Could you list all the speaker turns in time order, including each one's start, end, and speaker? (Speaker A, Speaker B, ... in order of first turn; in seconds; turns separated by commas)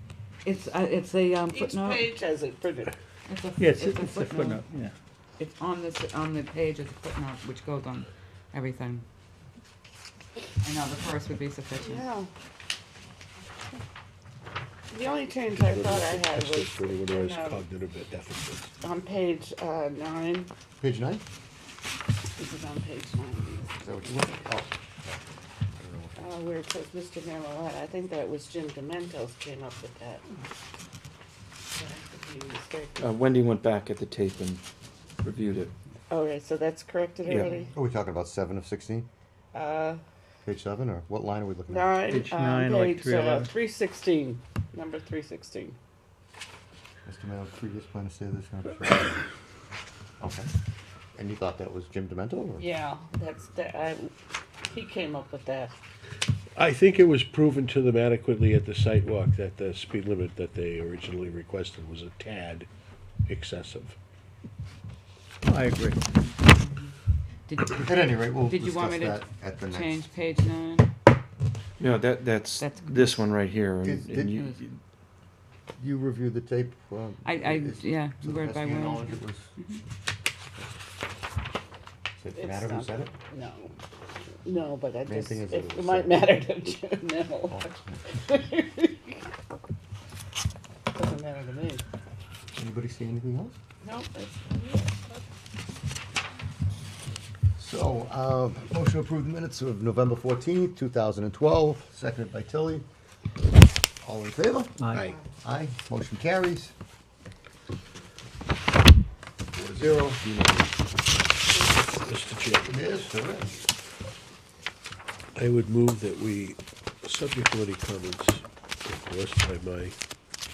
Speaker A: 0.4-2.1, Speaker B: 1.5-2.9, Speaker A: 3.3-4.7, Speaker C: 3.6-4.9, Speaker A: 5.4-9.1, Speaker A: 10.6-12.1, Speaker B: 11.8-12.3, Speaker B: 14.9-17.6, Speaker D: 15.5-18.7, Speaker B: 18.8-20.5, Speaker E: 20.8-21.2, Speaker B: 22.4-23.8, Speaker E: 23.8-25.2, Speaker E: 25.8-26.2, Speaker B: 26.2-30.3, Speaker B: 31.8-33.1, Speaker F: 33.0-34.6, Speaker F: 35.2-35.7, Speaker B: 36.1-37.8, Speaker F: 37.2-37.5, Speaker E: 37.7-39.1, Speaker B: 39.5-40.0, Speaker E: 40.4-41.9, Speaker B: 41.7-45.8, Speaker C: 42.1-43.5, Speaker E: 47.0-49.2, Speaker E: 50.2-50.5, Speaker E: 51.2-52.6, Speaker B: 52.6-54.1, Speaker B: 54.7-55.7, Speaker D: 56.6-62.7, Speaker D: 63.3-64.0, Speaker C: 65.5-66.0, Speaker A: 66.5-66.9, Speaker A: 67.5-70.9, Speaker E: 67.7-70.0, Speaker F: 71.8-74.8, Speaker A: 72.6-73.3, Speaker E: 73.8-74.4, Speaker E: 75.8-79.5, Speaker A: 77.2-79.8, Speaker E: 82.2-83.1, Speaker B: 82.4-83.7, Speaker B: 84.5-89.2, Speaker E: 85.1-86.3, Speaker E: 87.5-88.2, Speaker B: 90.9-91.8, Speaker E: 92.5-93.6, Speaker B: 93.8-95.2, Speaker E: 97.6-102.9, Speaker E: 104.0-106.7, Speaker C: 104.8-105.1, Speaker E: 109.7-110.2, Speaker D: 112.0-113.1, Speaker E: 112.7-113.6, Speaker D: 115.3-120.0